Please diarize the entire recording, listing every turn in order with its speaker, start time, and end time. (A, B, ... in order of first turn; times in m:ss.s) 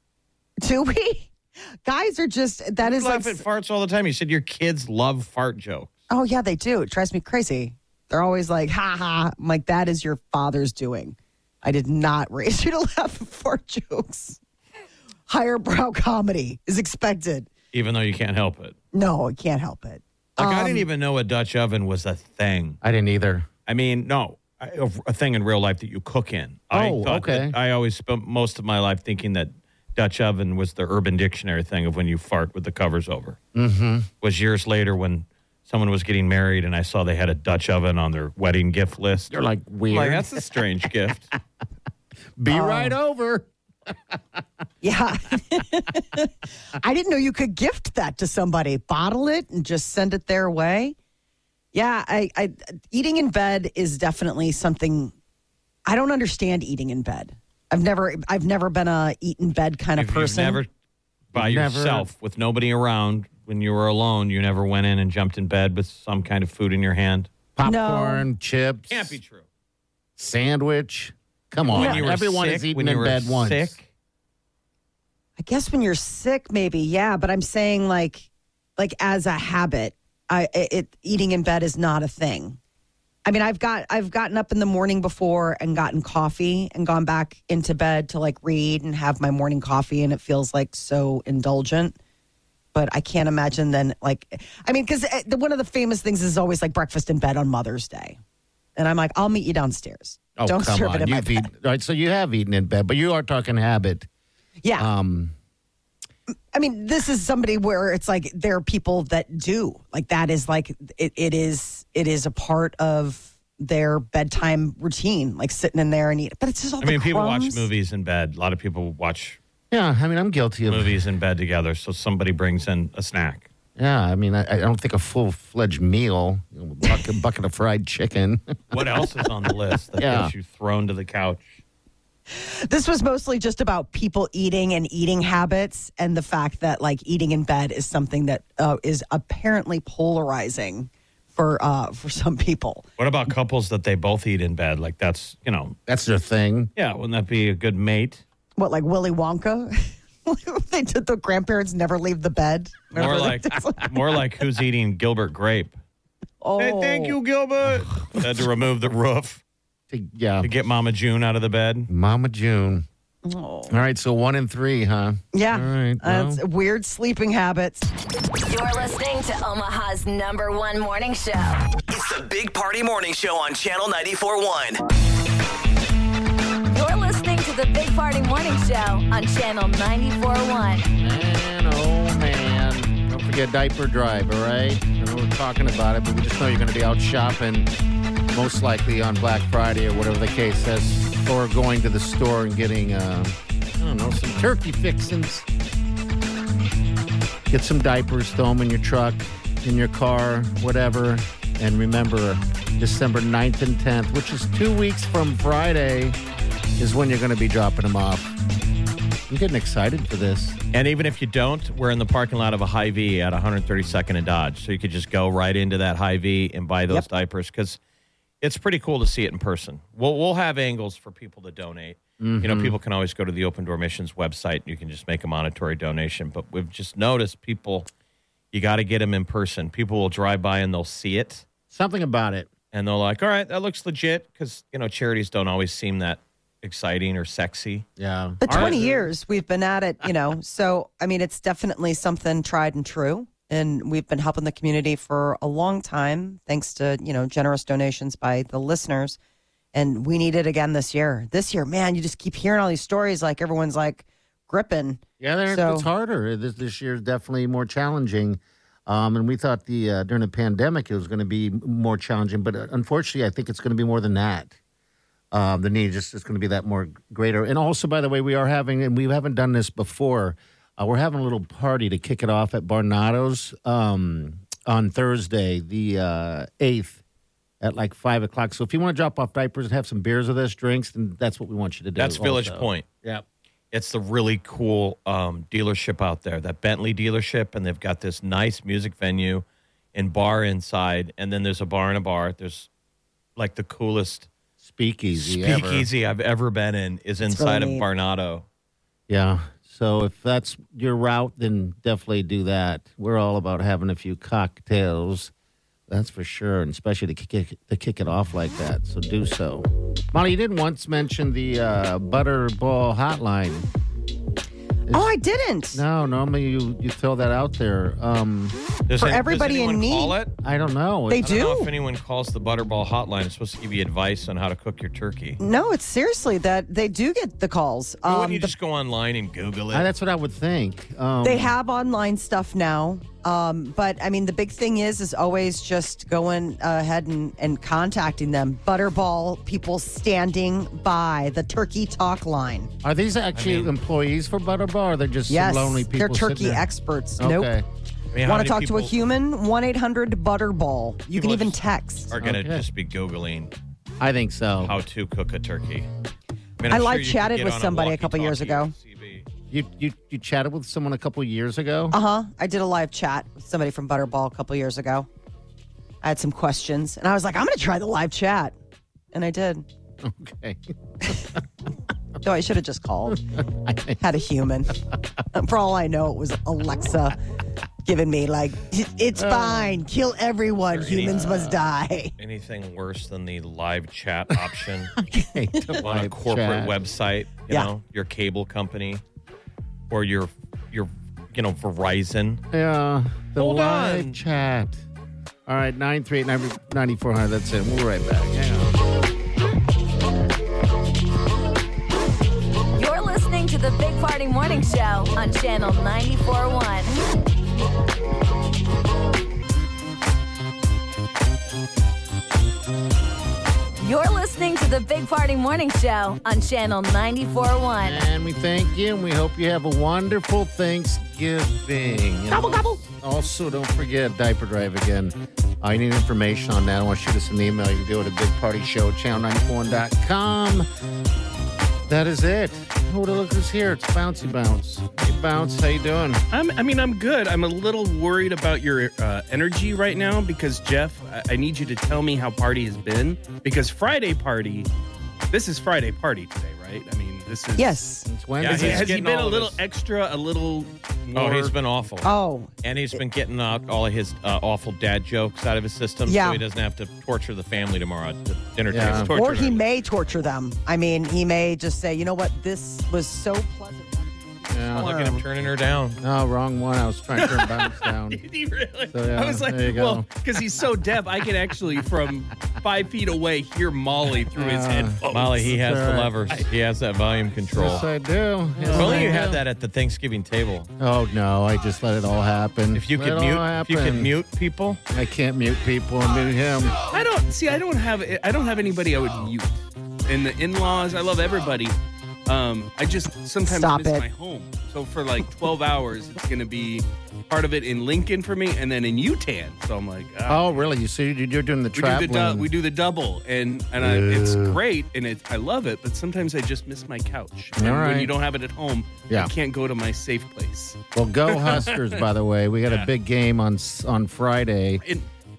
0:00.6-0:01.3 A
0:01.9-0:03.4 A
0:02.8-0:05.9 B
0:06.1-0:14.4 A
0:15.3-0:17.5 A
0:17.7-0:18.8 B
0:18.9-0:20.9 A
0:20.4-0:22.8 B
0:22.8-0:23.5 C
0:23.7-0:33.4 B
0:26.7-0:27.6 C
0:33.6-0:34.1 C
0:34.2-0:39.3 B
0:39.3-0:40.4 C
0:39.9-0:41.3 B
0:42.4-0:44.2 C
0:42.5-0:43.0 A
0:44.8-0:51.0 A
0:51.7-0:55.1 A
0:55.9-1:00.6 A
1:00.0-1:00.7 B
1:01.3-1:02.1 C
1:01.3-1:07.3 B
1:07.6-1:09.2 C
1:07.6-1:08.2 A
1:08.9-1:09.4 B
1:10.2-1:13.8 C
1:11.7-1:13.8 B
1:11.7-1:12.0 A
1:15.4-1:22.6 A
1:23.2-1:32.0 A
1:32.7-1:38.2 A
1:38.8-1:41.5 A
1:40.4-1:44.1 C
1:44.6-1:44.9 A
1:44.8-1:45.3 C
1:46.5-1:57.7 A
1:56.8-1:59.4 B
1:59.7-2:01.0 C
2:00.7-2:03.5 B
2:03.8-2:08.6 C
2:08.7-2:11.5 B
2:10.0-2:10.3 C
2:12.3-2:22.8 A
2:23.0-2:25.8 B
2:25.9-2:26.7 C
2:26.8-2:28.2 B
2:28.6-2:34.2 A
2:32.9-2:35.8 B
2:36.4-2:37.2 A
2:36.6-2:39.4 B
2:39.9-2:40.5 C
2:40.4-2:41.9 B
2:41.9-2:42.9 C
2:43.2-2:43.8 A
2:43.7-2:46.4 C
2:45.3-2:47.9 A
2:48.5-2:51.6 D
2:51.9-2:54.8 E
2:56.7-3:00.9 D
3:01.0-3:07.7 C
3:08.3-3:15.5 C
3:17.5-3:26.2 C
3:26.8-3:28.3 C
3:29.3-3:30.6 C
3:30.7-3:37.8 B
3:38.4-3:47.9 B
3:42.2-3:42.8 C
3:48.5-3:51.4 B
3:51.7-3:52.5 C
3:52.7-3:57.9 B
3:58.0-3:59.1 C
3:58.4-4:09.2 A
3:58.4-3:58.8 B
4:09.7-4:15.9 A
4:15.2-4:24.5 C
4:25.3-4:37.0 C
4:37.6-4:43.2 C
4:42.0-4:42.9 B
4:43.7-4:52.7 B
4:53.4-4:54.3 B
4:54.6-4:55.9 C
4:55.1-4:58.4 B
4:57.3-4:57.9 A
4:59.1-5:05.3 C
5:05.9-5:13.7 C
5:14.9-5:15.8 A
5:15.7-5:18.6 C
5:18.9-5:20.3 B
5:19.0-5:20.2 A
5:20.4-5:21.3 C
5:21.1-5:21.7 A
5:21.2-5:25.4 B
5:25.4-5:28.5 A
5:28.0-5:29.9 B
5:29.7-5:31.5 C
5:31.2-5:42.7 A
5:42.8-5:46.6 C
5:43.4-5:43.7 B
5:45.3-5:47.5 A
5:47.2-5:47.6 C
5:48.1-5:48.9 B
5:48.2-5:52.1 A
5:51.1-5:53.5 B
5:52.2-5:52.6 C
5:54.0-5:54.8 C
5:54.6-5:55.9 B
5:56.6-5:59.3 B
5:56.7-5:58.7 A
5:59.5-6:02.0 C
6:01.9-6:05.1 A
6:06.0-6:08.6 A
6:09.1-6:09.7 A
6:10.0-6:10.6 C
6:12.2-6:13.2 A
6:13.1-6:14.0 C
6:14.0-6:14.7 A
6:15.3-6:17.2 A
6:17.8-6:22.1 A
6:19.1-6:19.8 C
6:20.7-6:21.2 B
6:21.0-6:21.6 C
6:22.2-6:24.9 B
6:25.2-6:26.8 C
6:25.8-6:29.0 B
6:29.9-6:32.4 B
6:32.5-6:34.8 C
6:33.4-6:34.2 B
6:35.5-6:38.7 C
6:42.8-6:47.0 D
6:53.8-6:58.0 D
6:57.8-7:10.7 C
7:02.3-7:02.8 A
7:11.9-7:16.2 C
7:16.3-7:24.7 F
7:25.3-7:31.6 F
7:27.6-7:28.0 A
7:28.1-7:29.0 C
7:28.4-7:29.6 B
7:31.1-7:32.1 B
7:32.0-7:33.0 A
7:32.6-7:40.3 B
7:36.1-7:36.4 A
7:38.7-7:39.2 C
7:38.9-7:45.2 A
7:44.5-7:45.0 C
7:44.8-7:46.0 B
7:46.0-7:48.2 C
7:47.2-7:55.5 F
7:48.9-7:50.4 C
7:54.2-7:56.5 C
7:55.1-7:57.9 B
7:57.5-7:59.4 C
7:58.7-8:00.7 B
7:58.7-7:59.2 A
8:00.8-8:04.1 C
8:02.7-8:04.8 B
8:04.9-8:06.8 C
8:06.9-8:20.7 F
8:13.5-8:14.1 A
8:20.3-8:22.5 C
8:21.8-8:30.8 F
8:23.8-8:24.6 C
8:27.6-8:28.1 C
8:31.0-8:34.8 C
8:31.3-8:32.0 F